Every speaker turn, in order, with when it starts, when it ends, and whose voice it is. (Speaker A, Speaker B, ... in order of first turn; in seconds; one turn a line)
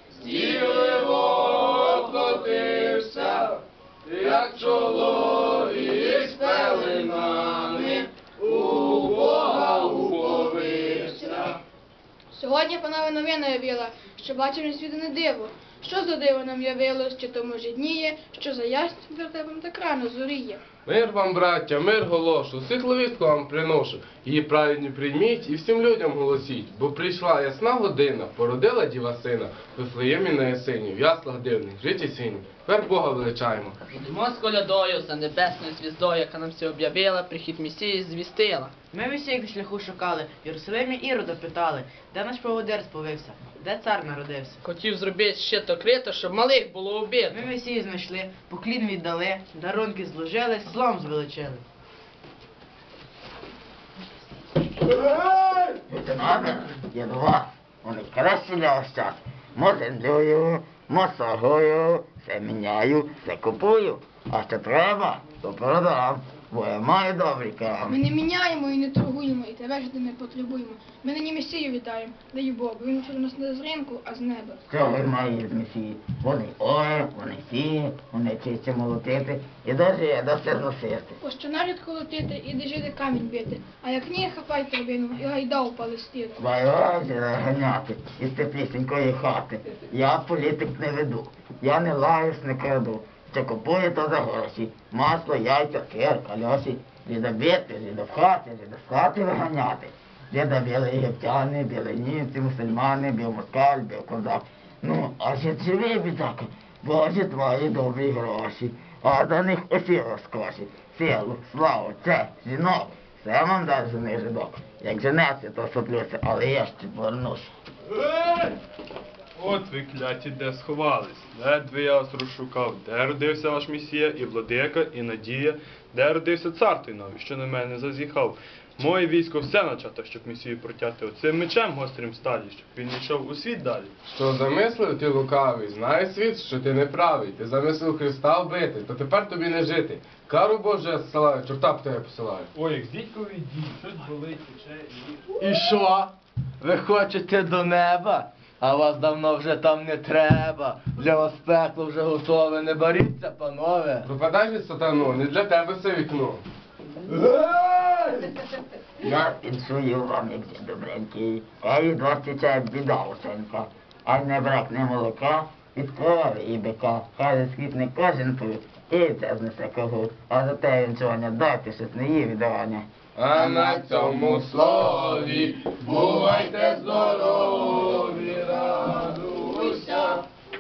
Speaker A: 0.2-3.4
Speaker A: 4.1-7.7
Speaker B: 6.3-7.1
Speaker A: 8.5-10.7
Speaker B: 10.1-11.5
Speaker B: 12.3-20.6
Speaker A: 20.9-33.8
Speaker C: 34.1-38.7
Speaker D: 38.9-44.6
Speaker C: 44.8-47.2
Speaker D: 47.3-51.7
Speaker E: 55.6-68.0
Speaker B: 67.9-74.6
Speaker E: 74.7-81.2
Speaker B: 81.2-86.4
Speaker E: 86.4-117.5
Speaker F: 118.1-118.5
Speaker F: 119.4-133.9
Speaker A: 134.1-142.5
Speaker F: 142.6-145.1
Speaker G: 145.4-154.1
Speaker A: 154.1-156.4
Speaker G: 157.5-157.9
Speaker E: 159.0-172.9
Speaker A: 173.2-180.1